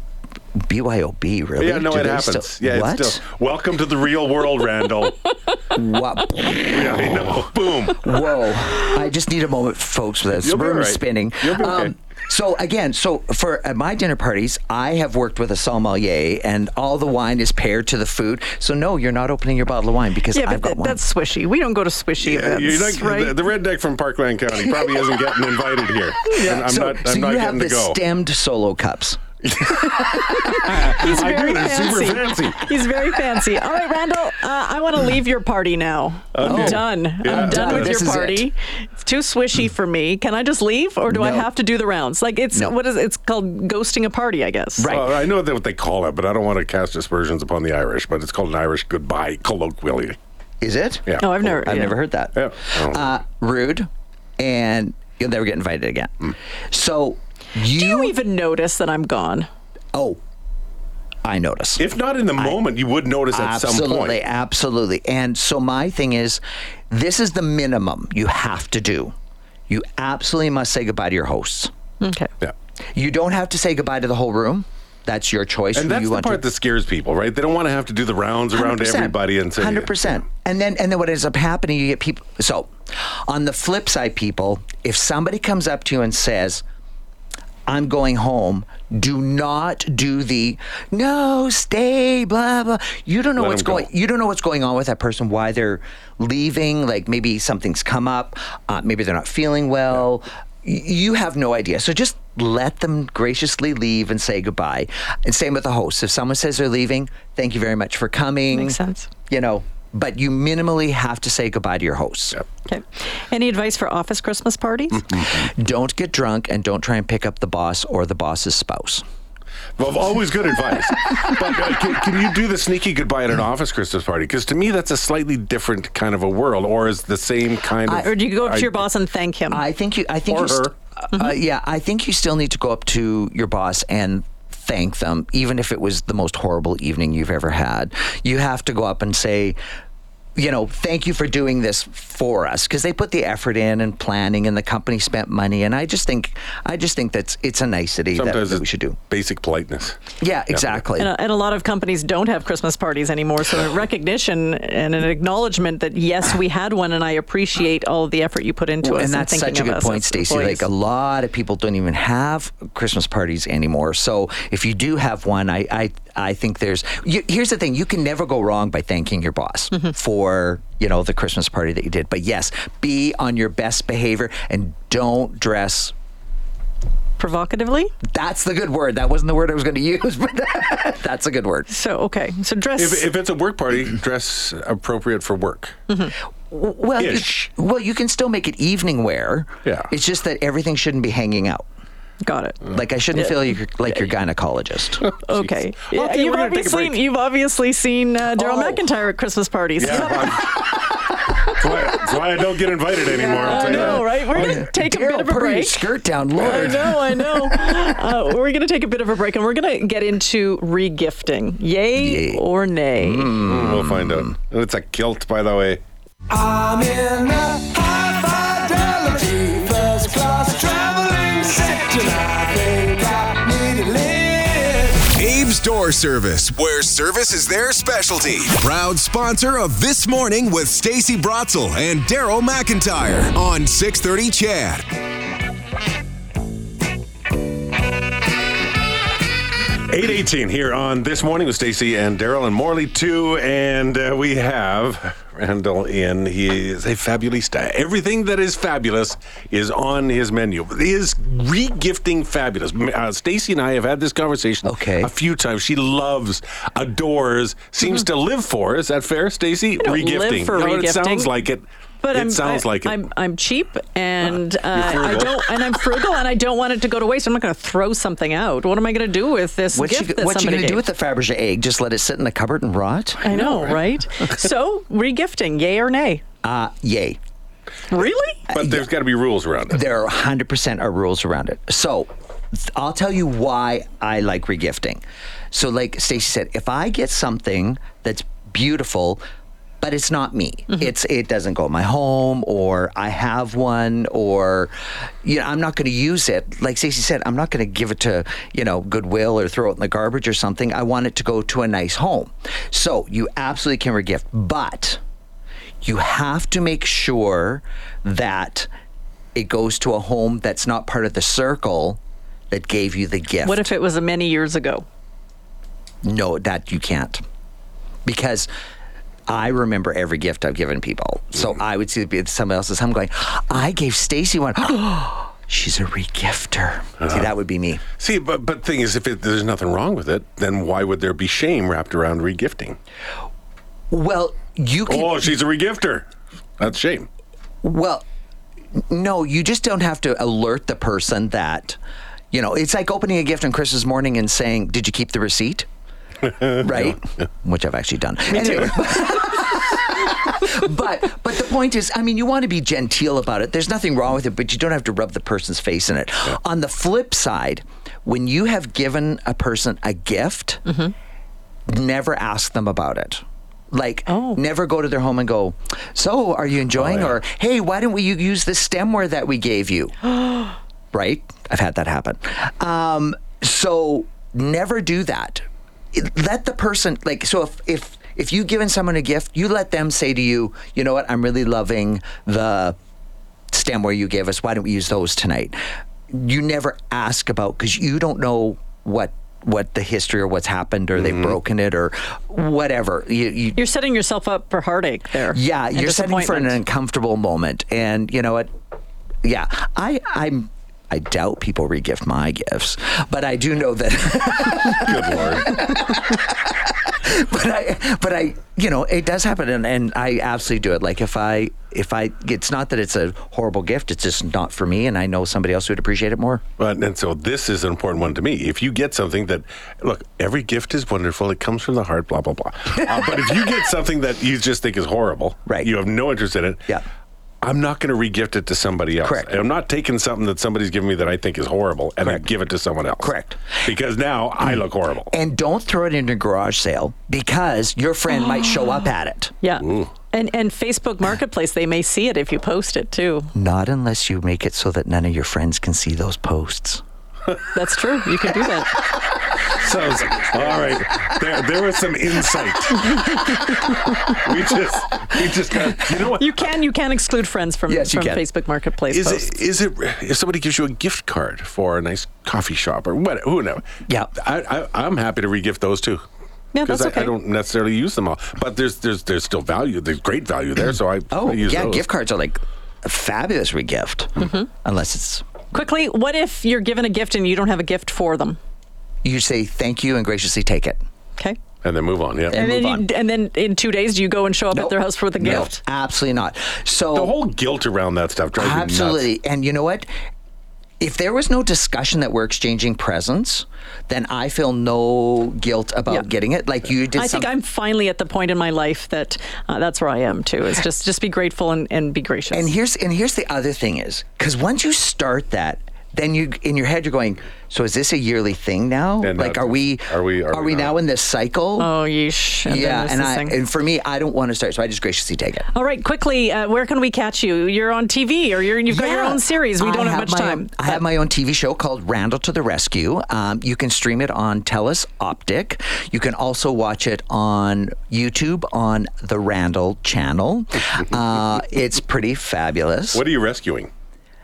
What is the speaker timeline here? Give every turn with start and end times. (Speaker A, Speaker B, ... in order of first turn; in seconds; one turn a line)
Speaker A: 0.6-3.2
Speaker B: 1.6-5.3
Speaker A: 5.7-7.0
Speaker B: 6.7-8.0
Speaker A: 7.9-21.0
Speaker B: 10.4-11.9
Speaker C: 20.3-23.4
Speaker B: 22.2-28.0
Speaker A: 24.5-25.2
Speaker A: 26.3-30.6
Speaker B: 29.5-32.7
Speaker C: 30.9-44.9
Speaker B: 36.3-38.2
Speaker A: 36.4-38.5
Speaker A: 41.1-41.5
Speaker A: 44.8-45.2
Speaker B: 44.9-50.2
Speaker A: 50.6-53.9
Speaker B: 51.1-51.4
Speaker C: 51.2-52.0
Speaker B: 52.4-53.1
Speaker A: 54.4-58.2
Speaker C: 57.7-59.5
Speaker A: 59.9-60.2
Speaker A: 61.2-61.9
Speaker B: 61.8-64.2
Speaker A: 63.3-69.1
Speaker A: 69.7-71.7
Speaker C: 72.0-72.3
Speaker A: 73.0-76.4
Speaker B: 75.8-80.1
Speaker A: 78.5-86.6
Speaker A: 87.7-108.8
Speaker B: 93.4-93.9
Speaker C: 108.5-109.1
Speaker A: 109.3-112.4
Speaker C: 112.7-115.2
Speaker A: 115.1-119.0
Speaker B: 119.8-128.8
Speaker C: 127.9-129.6
Speaker A: 129.5-139.6
Speaker B: 130.3-130.7
Speaker A: 140.4-149.0
Speaker B: 148.2-150.0
Speaker A: 150.2-151.1
Speaker B: 150.5-150.8
Speaker C: 151.0-160.7
Speaker A: 158.8-175.9
Speaker C: 177.2-177.9
Speaker A: 178.1-181.7
Speaker C: 181.7-183.1
Speaker B: 182.8-185.8
Speaker A: 186.5-191.7
Speaker B: 187.0-187.5
Speaker B: 189.7-189.9
Speaker C: 192.2-194.1
Speaker A: 192.7-195.0
Speaker B: 195.1-197.0
Speaker C: 195.2-200.4
Speaker A: 198.4-198.8
Speaker B: 199.8-200.5
Speaker A: 199.9-200.3
Speaker B: 201.5-204.6
Speaker A: 203.1-207.2
Speaker C: 203.3-205.8
Speaker B: 206.4-206.9
Speaker C: 206.4-213.4
Speaker A: 211.9-212.4
Speaker A: 213.0-214.3
Speaker B: 213.4-215.8
Speaker D: 216.3-224.9
Speaker E: 225.0-234.8
Speaker B: 239.9-263.0
Speaker A: 254.6-255.1
Speaker C: 259.8-261.3
Speaker C: 262.0-270.9
Speaker B: 264.2-265.6
Speaker A: 269.7-273.4
Speaker C: 273.2-276.2
Speaker B: 273.4-273.6
Speaker A: 276.4-277.2
Speaker C: 277.9-278.4
Speaker A: 278.5-278.9
Speaker B: 278.5-279.9
Speaker A: 279.7-289.2
Speaker A: 289.8-294.7
Speaker A: 295.2-305.0
Speaker A: 305.8-308.7
Speaker A: 309.4-312.0
Speaker A: 312.5-313.7
Speaker C: 313.4-314.9
Speaker A: 316.0-317.2
Speaker A: 318.1-318.5
Speaker A: 319.3-327.8
Speaker B: 327.0-327.3
Speaker B: 328.0-332.8
Speaker A: 333.9-335.3
Speaker B: 334.9-336.1
Speaker B: 336.6-337.1
Speaker A: 337.6-338.0
Speaker A: 338.9-341.8
Speaker A: 342.3-345.7
Speaker A: 346.5-360.7
Speaker C: 360.7-360.9
Speaker A: 361.7-382.8
Speaker C: 364.1-364.4
Speaker B: 366.8-367.1
Speaker A: 383.5-385.6
Speaker A: 386.1-393.6
Speaker C: 393.6-396.6
Speaker A: 395.3-398.5
Speaker A: 399.2-416.4
Speaker B: 404.8-405.5
Speaker B: 416.6-426.7
Speaker A: 425.5-425.7
Speaker B: 427.4-435.1
Speaker A: 429.0-429.3
Speaker A: 432.0-432.3
Speaker A: 433.0-433.5
Speaker A: 435.1-439.4
Speaker C: 439.4-443.3
Speaker B: 439.6-439.9
Speaker A: 443.4-446.8
Speaker C: 447.5-448.7
Speaker B: 449.5-456.3
Speaker C: 456.1-459.4
Speaker A: 457.7-458.2
Speaker B: 458.9-463.6
Speaker A: 463.9-464.1
Speaker B: 464.2-466.1
Speaker C: 466.5-467.1
Speaker B: 466.6-471.9
Speaker A: 471.1-475.3
Speaker C: 474.2-474.5
Speaker C: 475.5-478.4
Speaker A: 479.0-480.8
Speaker B: 481.6-482.4
Speaker A: 482.3-482.9
Speaker C: 482.3-485.6
Speaker A: 484.5-487.2
Speaker B: 486.9-489.1
Speaker A: 488.4-489.9
Speaker A: 490.8-497.3
Speaker C: 496.9-502.5
Speaker A: 502.3-511.7
Speaker B: 509.0-510.7
Speaker C: 511.6-513.4
Speaker A: 512.5-515.5
Speaker C: 515.5-520.8
Speaker A: 518.7-533.0
Speaker B: 532.9-533.7